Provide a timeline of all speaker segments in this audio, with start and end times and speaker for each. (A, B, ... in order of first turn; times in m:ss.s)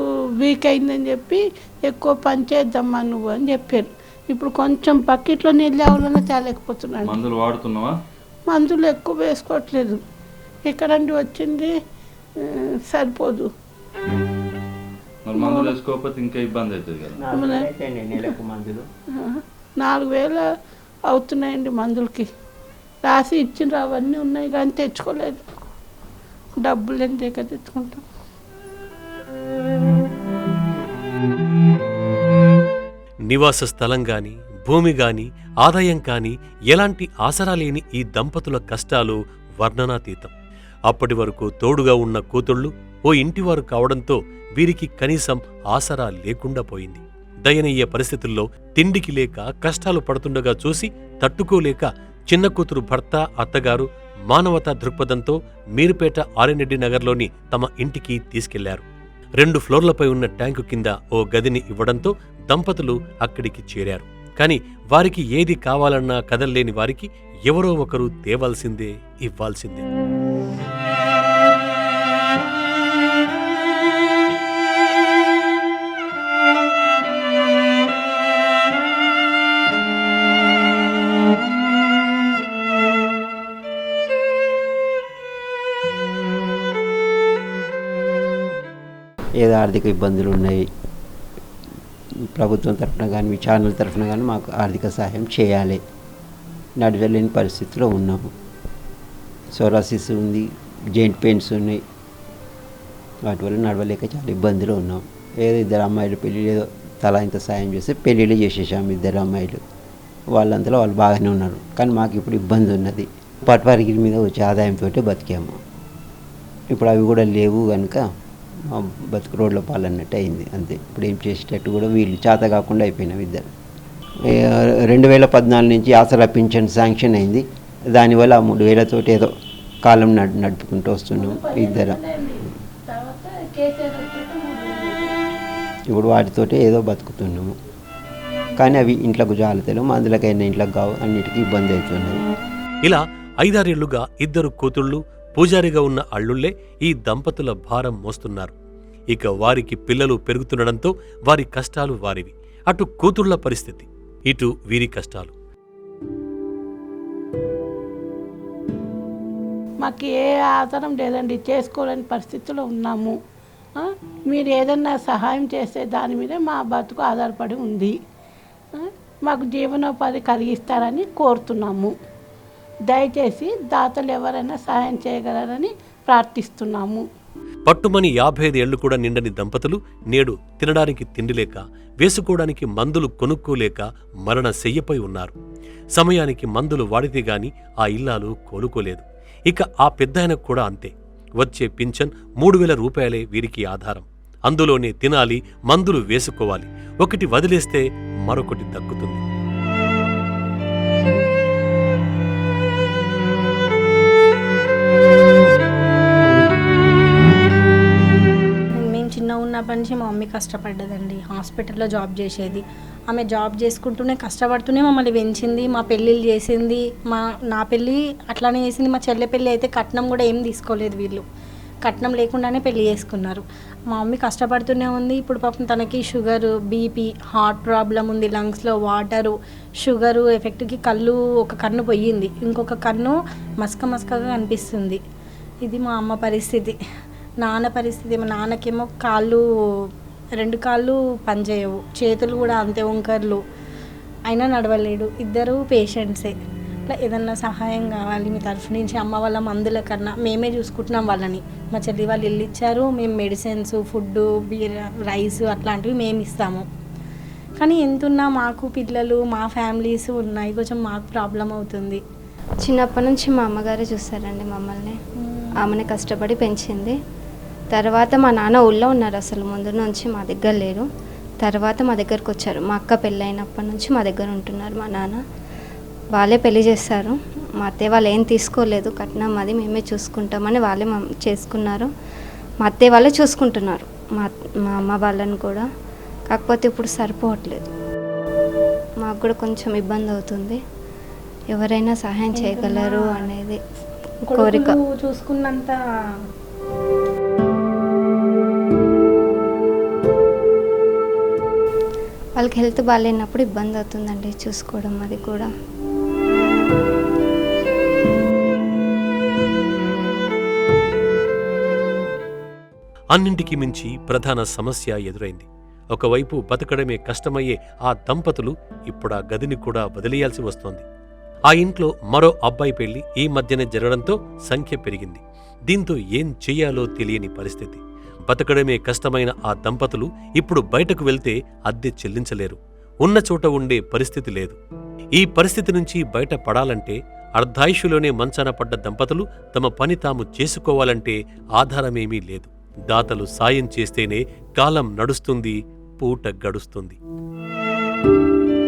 0:00.4-0:07.2 A
0:07.0-0:08.0 B
0:08.5-0:10.0 A
0:10.7-0:11.7 A
0:12.9-0:13.5 A
0:15.2-0:17.2 B
0:15.4-0:15.8 A
0:17.2-0:18.8 C
0:17.3-0:17.7 A
0:19.2-0:20.4 A
0:21.1-0:22.3 A
0:23.0-0:25.4 A
0:26.6-0:28.0 A
0:33.3-0:40.3 D
0:40.9-0:58.8 D
0:59.4-1:09.9 D
1:29.4-1:30.6 C
1:32.4-1:35.8 C
1:36.8-1:38.2 C
1:39.6-1:40.4 C
1:41.0-1:41.8 C
1:43.3-1:49.6 C
1:50.4-1:55.6 C
1:56.7-1:58.0 C
1:58.8-2:03.5 C
2:04.3-2:09.3 C
2:09.9-2:12.0 C
2:11.2-2:15.1 A
2:15.9-2:17.5 C
2:18.6-2:22.2 C
2:22.8-2:28.6 D
2:29.1-2:35.3 D
2:39.8-2:43.2 A
2:43.8-2:48.0 A
2:48.8-2:51.9 A
2:52.9-2:57.0 A
2:57.7-3:05.4 D
3:06.0-3:19.2 D
3:28.8-3:41.2 E
3:41.8-3:49.3 E
3:49.8-3:55.0 E
3:55.6-3:56.8 E
3:57.4-3:59.4 E
4:00.4-4:03.4 E
4:04.3-4:06.4 E
4:06.9-4:16.7 E
4:17.6-4:22.0 E
4:22.6-4:25.0 F
4:25.6-4:27.0 F
4:27.7-4:30.9 F
4:31.4-4:35.2 F
4:36.2-4:41.9 F
4:42.6-4:45.7 F
4:46.3-4:47.7 F
4:49.0-4:50.6 F
4:51.5-4:53.6 F
4:52.3-4:53.3 E
4:54.3-4:55.8 E
4:54.3-4:54.8 F
5:02.4-5:05.5 F
5:13.1-5:20.8 D
5:21.5-5:34.6 D
5:35.2-5:47.0 D